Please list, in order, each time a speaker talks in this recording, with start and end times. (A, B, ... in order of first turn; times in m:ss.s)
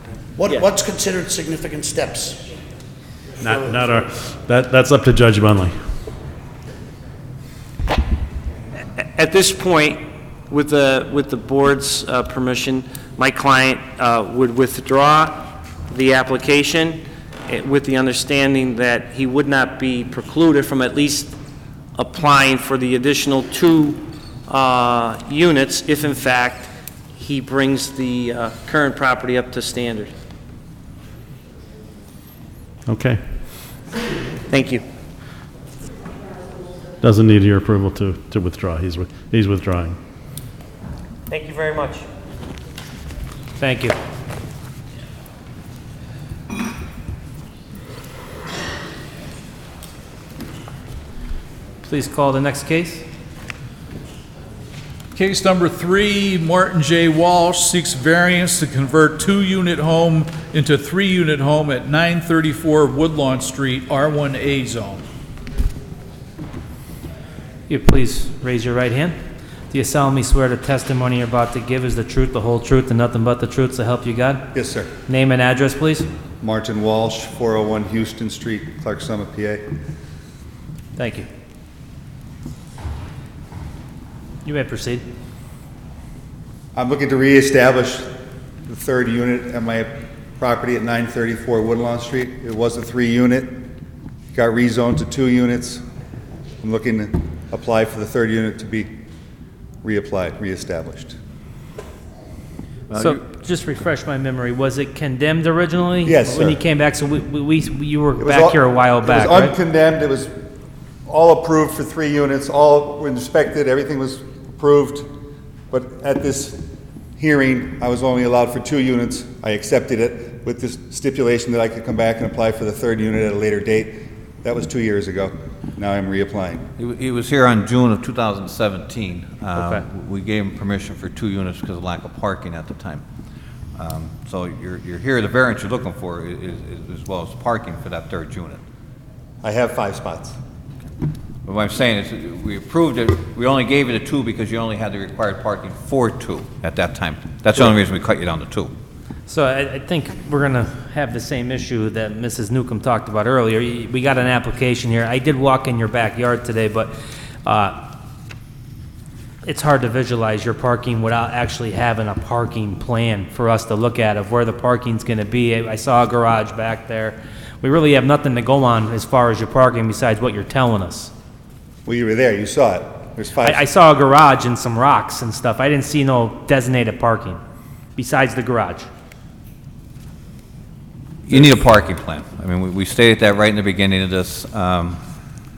0:00.3-0:02.4 A
0:03.4-0:05.7 B
0:03.5-0:03.8 A
0:09.0-0:21.3 C
0:21.9-0:30.1 C
0:32.9-0:33.2 B
0:34.5-0:34.8 C
0:37.0-0:40.0 B
0:41.3-0:42.0 C
0:43.6-0:43.9 D
0:51.8-0:53.0 D
0:55.1-1:05.0 E
1:07.7-1:09.2 D
1:09.7-1:14.4 D
1:14.5-1:14.9 F
1:15.1-1:16.1 D
1:16.4-1:19.6 F
1:21.0-1:21.3 D
1:24.4-1:25.0 D
1:26.7-1:28.1 F
1:28.7-1:33.7 F
1:34.3-1:35.8 F
1:36.6-1:38.9 F
1:39.8-1:41.2 F
1:42.9-1:43.2 G
1:43.0-1:49.5 D
1:46.0-1:46.6 F
1:48.2-1:50.3 F
1:51.0-1:55.1 F
1:55.7-1:56.6 F
1:57.2-2:06.7 F
2:06.8-2:13.0 G
2:09.6-2:09.8 D
2:13.8-2:18.6 G
2:19.4-2:20.4 F
2:21.4-2:28.7 G
2:29.3-2:36.9 D
2:37.4-2:37.9 D
2:39.4-2:51.1 D
2:51.8-2:53.6 F
2:53.4-2:57.4 D
2:58.0-2:58.9 D
3:01.2-3:05.0 G
3:01.3-3:01.5 F